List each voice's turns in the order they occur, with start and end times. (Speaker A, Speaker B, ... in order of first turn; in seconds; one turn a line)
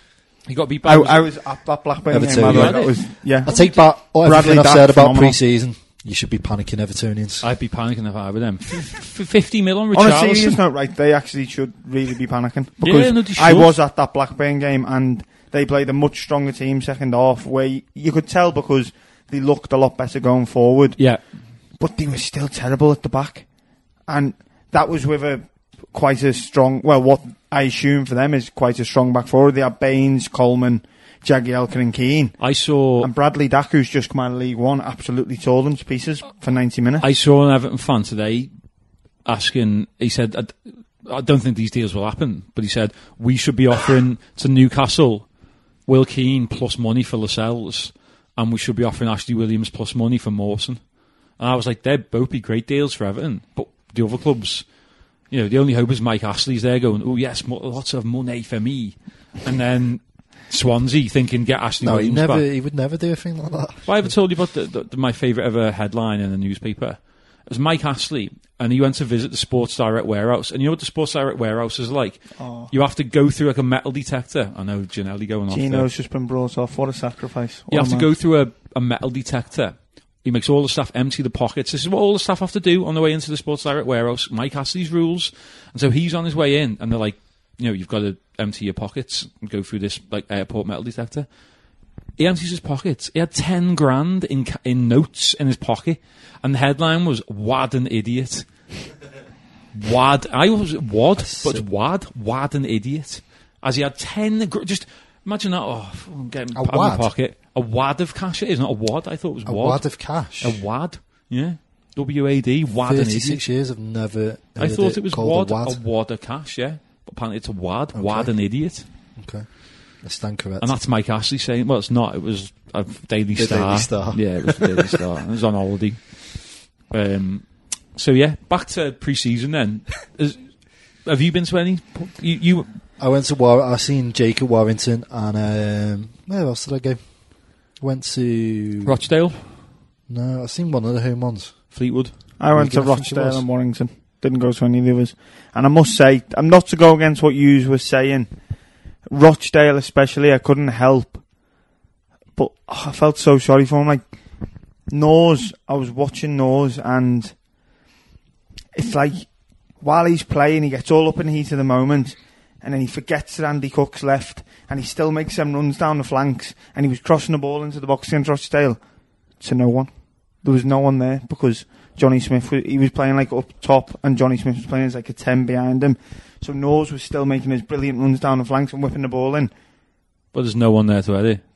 Speaker A: 0.5-1.3
Speaker B: 0.8-5.4
Speaker C: 2.1-7.5
Speaker A: 2.4-3.8
Speaker A: 7.4-10.6
Speaker B: 9.9-21.1
Speaker A: 12.8-13.8
Speaker A: 21.0-21.2
Speaker B: 21.8-23.4
Speaker B: 24.1-32.4
Speaker A: 32.4-33.1
Speaker B: 33.0-37.1
Speaker A: 37.0-38.5
Speaker A: 39.2-45.3
Speaker A: 45.9-50.8
Speaker A: 51.4-54.7
Speaker A: 55.3-62.5
Speaker C: 61.8-64.1
Speaker A: 63.9-75.9
Speaker B: 72.4-72.7
Speaker B: 75.5-78.1
Speaker A: 77.7-91.3
Speaker A: 92.2-98.5
Speaker A: 99.7-113.4
Speaker C: 101.2-101.6
Speaker C: 106.5-107.1
Speaker C: 109.5-110.6
Speaker C: 112.8-115.8
Speaker A: 114.6-118.9
Speaker C: 117.9-118.3
Speaker C: 119.2-119.5
Speaker C: 120.0-120.7
Speaker A: 120.6-132.8
Speaker C: 123.3-125.0
Speaker C: 133.0-138.9
Speaker A: 138.8-139.4
Speaker C: 140.1-141.7
Speaker A: 141.7-142.1
Speaker B: 142.4-148.3
Speaker C: 142.5-143.4
Speaker B: 149.1-151.2
Speaker B: 152.4-154.0
Speaker B: 154.9-157.3
Speaker B: 158.7-168.8
Speaker B: 169.4-179.5
Speaker A: 180.3-181.4